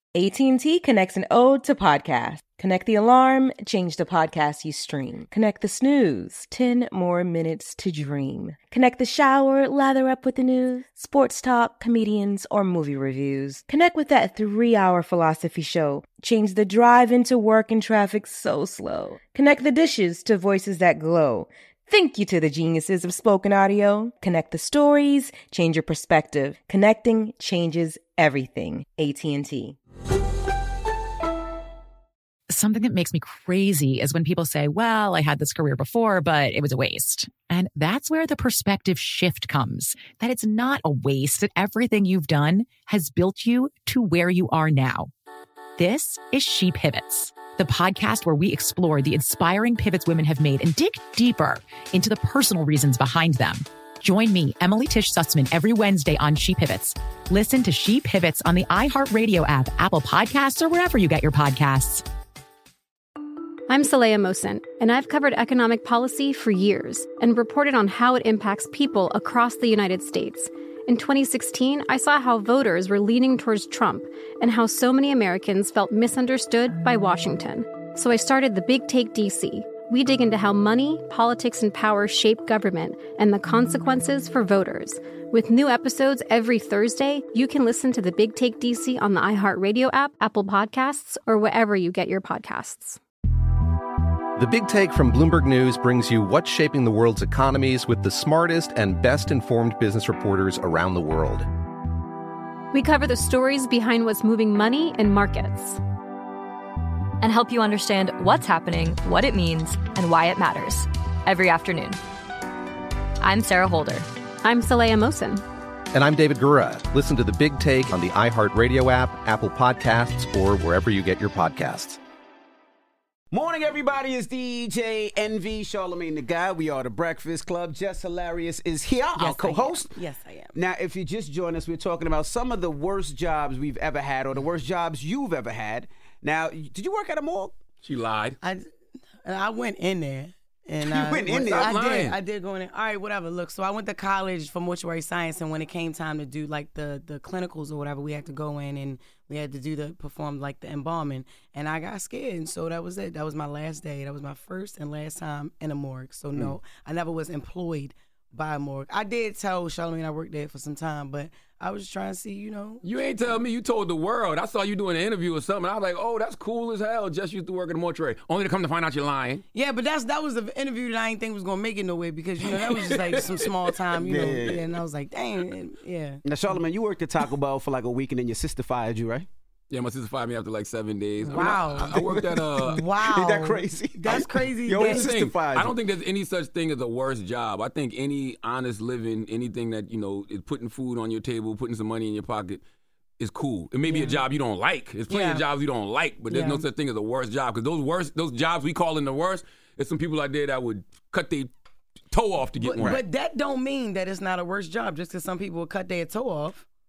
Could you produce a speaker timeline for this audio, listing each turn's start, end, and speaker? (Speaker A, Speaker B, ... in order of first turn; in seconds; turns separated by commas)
Speaker A: 0.1-29.7, Speaker B: 32.5-45.1, Speaker B: 45.8-62.0, Speaker C: 63.7-93.0, Speaker D: 94.4-101.5, Speaker C: 102.7-105.8, Speaker E: 107.2-112.0, Speaker E: 113.2-114.1, Speaker C: 114.4-115.4, Speaker D: 115.9-122.0, Speaker F: 123.3-130.0, Speaker G: 129.2-130.6, Speaker F: 130.5-137.6, Speaker H: 137.8-138.4, Speaker G: 139.2-162.8, Speaker F: 140.8-141.8, Speaker H: 141.3-142.2, Speaker H: 162.8-169.4, Speaker G: 169.6-176.2, Speaker H: 172.4-174.1, Speaker F: 174.0-174.7, Speaker F: 176.2-179.3, Speaker H: 179.7-182.9, Speaker G: 181.3-182.0, Speaker F: 181.9-185.8, Speaker G: 182.7-185.1, Speaker H: 184.7-192.6, Speaker H: 193.2-201.5, Speaker G: 193.9-194.2, Speaker G: 195.1-195.4, Speaker G: 196.3-196.6, Speaker H: 202.1-203.0, Speaker G: 202.6-206.7, Speaker F: 202.8-203.1